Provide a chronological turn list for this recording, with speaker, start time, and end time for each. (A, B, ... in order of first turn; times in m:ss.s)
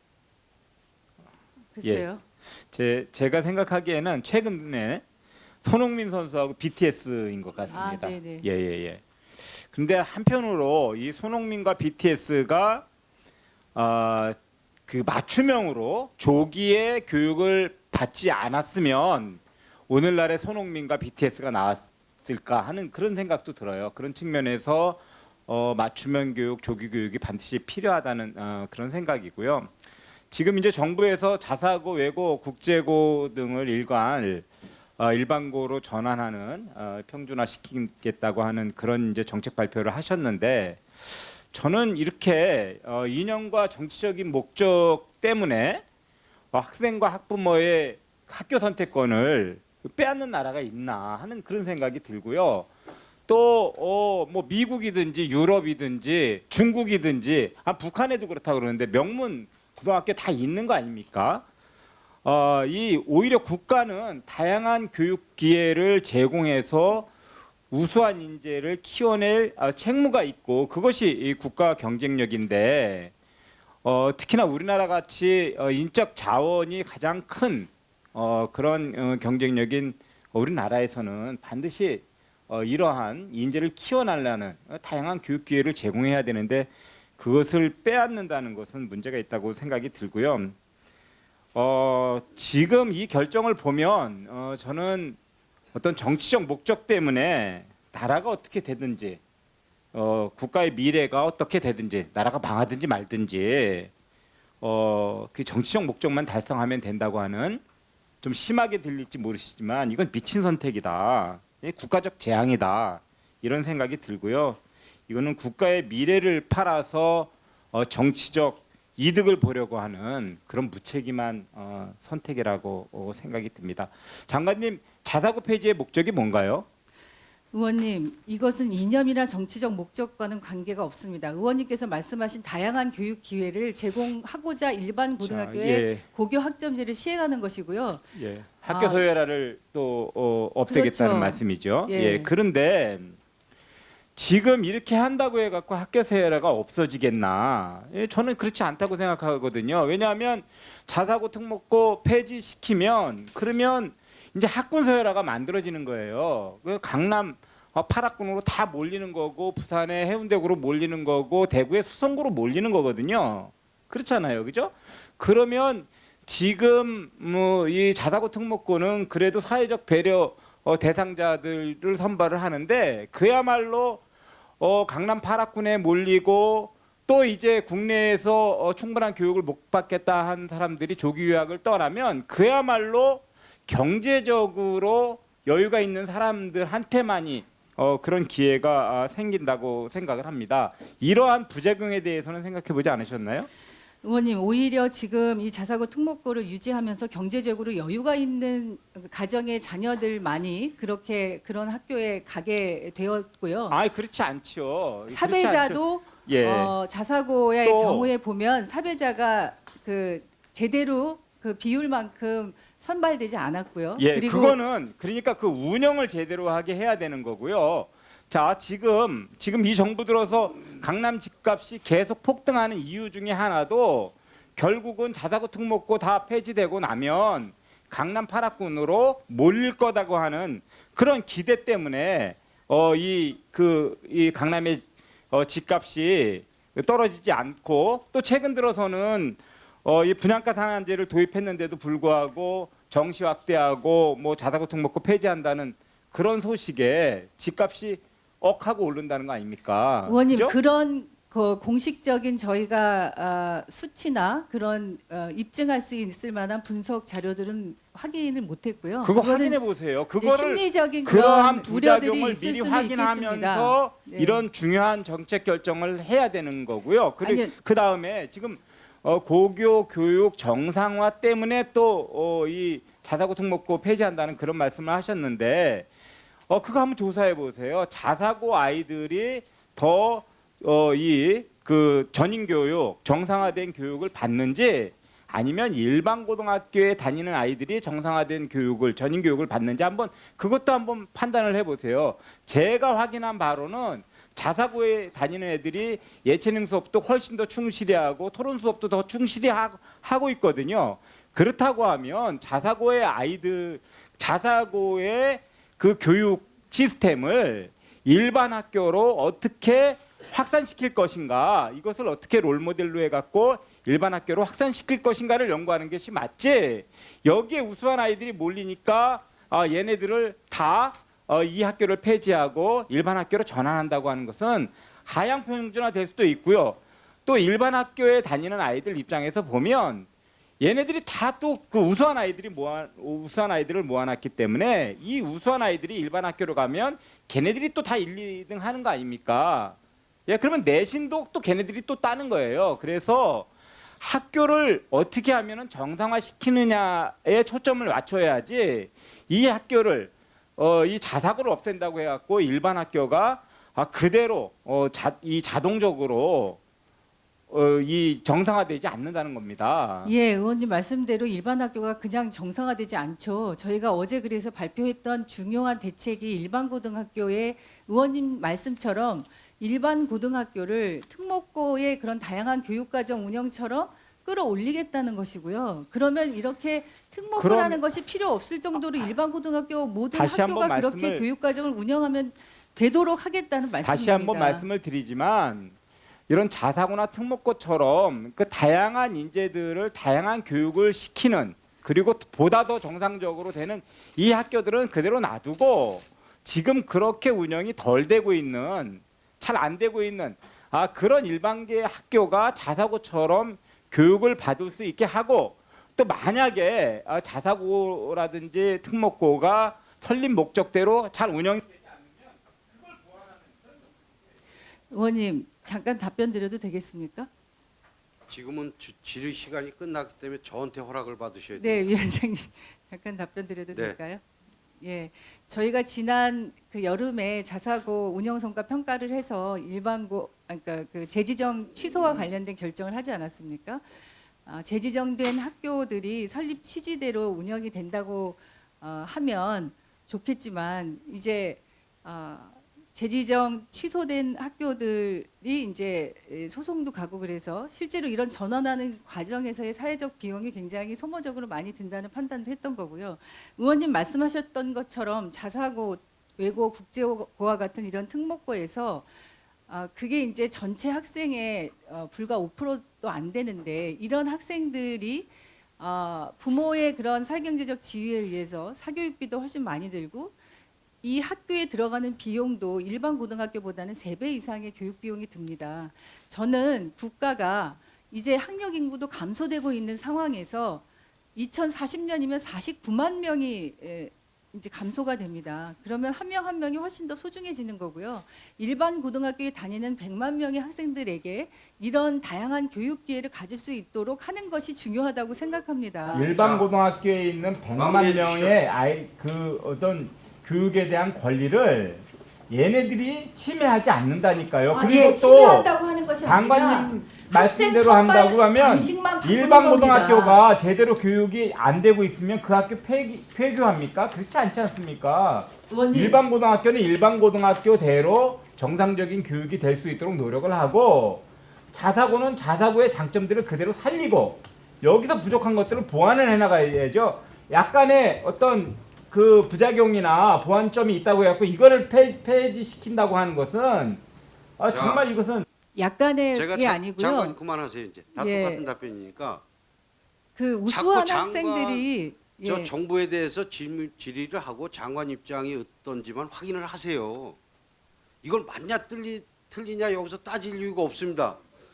0:01.7-0:02.2 A
0:02.7-0:05.0 B
0:05.6-0:09.0 B
0:07.7-0:08.5 A
0:09.6-0:12.9 B
0:13.8-0:29.7 B
0:30.3-0:34.5 B
0:35.0-0:40.8 B
0:41.5-0:45.8 B
0:46.5-0:52.7 B
0:53.3-1:01.4 B
1:02.2-1:07.1 B
1:07.7-1:13.1 B
1:13.8-1:30.6 B
1:31.6-1:35.2 B
1:35.7-1:39.2 B
1:39.9-1:43.9 B
1:44.6-1:47.6 B
1:48.2-2:06.7 B
2:07.5-2:18.0 A
2:15.2-2:16.0 B
2:18.2-2:23.2 B
2:18.6-2:19.0 A
2:20.7-2:22.3 A
2:24.2-2:54.0 B
2:54.6-3:13.5 B
3:14.0-3:23.8 A
3:23.7-3:26.7 B
3:25.1-3:34.6 A
3:27.6-3:28.1 B
3:34.0-4:10.6 B
4:10.1-4:19.6 A
4:19.0-4:35.9 B
4:20.2-4:24.4 A
4:27.2-4:27.5 A
4:36.5-5:30.1 B
5:30.6-5:43.5 B
5:44.0-5:56.6 B
5:57.5-6:00.1 B
6:00.0-6:24.7 A
6:17.4-6:17.8 B
6:20.1-6:21.2 B
6:23.8-6:25.8 B
6:26.3-6:51.9 B
6:54.9-6:57.3 A
6:58.3-7:01.9 C
7:01.6-7:04.2 A
7:04.8-7:13.8 A
7:14.5-7:39.1 A
7:39.7-7:50.4 A
7:51.0-8:00.8 A
8:01.4-8:16.3 A
8:16.1-8:25.7 B
8:16.4-8:16.7 C
8:17.8-8:18.6 C
8:24.7-8:30.4 A
8:26.2-8:54.0 B
8:35.7-8:36.2 A
8:54.6-8:55.5 B
8:54.7-8:55.0 C
8:55.8-8:57.4 A
8:56.4-8:59.4 C
8:58.2-8:58.6 A
9:00.4-9:02.7 A
9:00.7-9:01.9 C
9:02.4-9:07.4 C
9:08.2-9:11.4 C